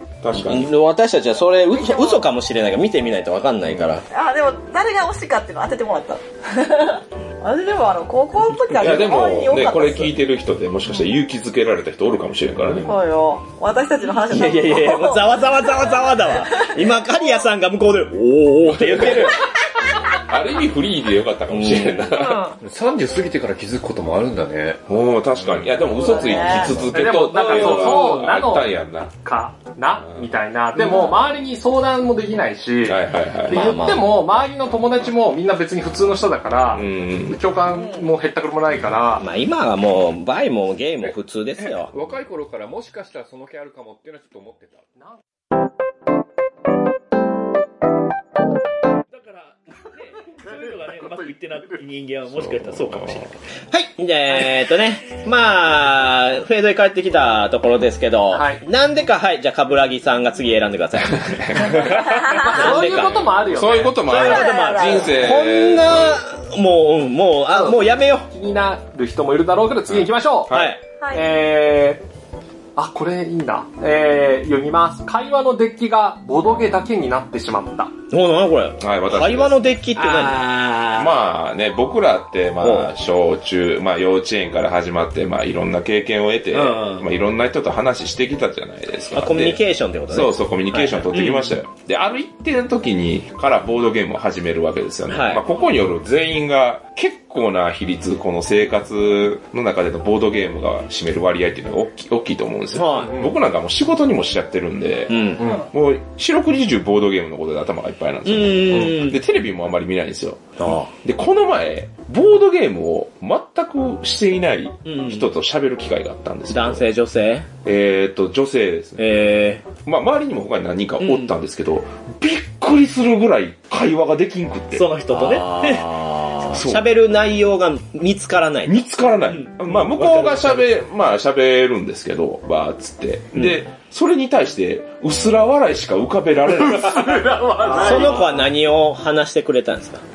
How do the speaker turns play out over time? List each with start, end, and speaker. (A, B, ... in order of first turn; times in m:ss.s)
0:00.2-0:00.7 A
0:00.4-0:04.0 B
0:01.7-0:02.2 C
0:04.1-0:10.1 C
0:08.7-0:12.9 A
0:12.8-0:17.4 C
0:14.3-0:19.4 B
0:18.7-0:19.4 A
0:20.3-0:22.4 A
0:21.5-0:22.1 B
0:22.1-0:22.6 C
0:22.6-0:24.8 D
0:24.9-0:29.1 A
0:25.4-0:25.7 D
0:25.9-0:26.8 C
0:26.5-0:26.8 D
0:26.8-0:39.2 E
0:27.4-0:28.2 F
0:30.8-0:31.2 C
0:32.8-0:33.8 A
0:33.5-0:34.1 B
0:36.7-0:37.4 A
0:37.7-0:38.1 C
0:39.2-0:41.9 B
0:41.9-0:44.8 D
0:49.1-0:53.3 F
0:50.5-0:51.4 E
0:52.3-0:53.2 A
0:53.7-1:03.3 B
0:58.3-0:58.6 E
1:01.1-1:02.2 A
1:01.6-1:02.6 C
1:02.0-1:04.1 E
1:03.4-1:06.2 A
1:04.0-1:05.1 C
1:04.1-1:08.3 B
1:07.5-1:10.6 E
1:09.9-1:10.7 A
1:10.5-1:10.8 B
1:11.0-1:11.3 C
1:11.1-1:12.0 E
1:12.8-1:17.9 E
1:18.1-1:20.4 B
1:18.8-1:19.7 A
1:20.0-1:21.1 F
1:20.9-1:56.9 A
1:22.6-1:22.9 B
1:26.5-1:27.0 F
1:29.1-1:30.3 B
1:30.7-1:31.5 F
1:35.1-1:35.4 B
1:42.7-1:43.2 B
1:45.1-1:45.4 B
1:45.4-1:45.7 E
1:48.2-1:49.2 F
1:50.6-1:50.9 B
1:54.8-1:55.3 F
1:56.5-1:57.5 B
1:57.6-2:04.9 A
1:59.0-1:59.6 B
2:01.0-2:01.3 F
2:04.7-2:05.9 F
2:05.1-2:08.8 B
2:06.5-2:06.8 A
2:08.7-2:17.3 A
2:09.3-2:10.7 F
2:16.5-2:18.3 E
2:17.6-2:18.4 F
2:17.7-2:20.0 B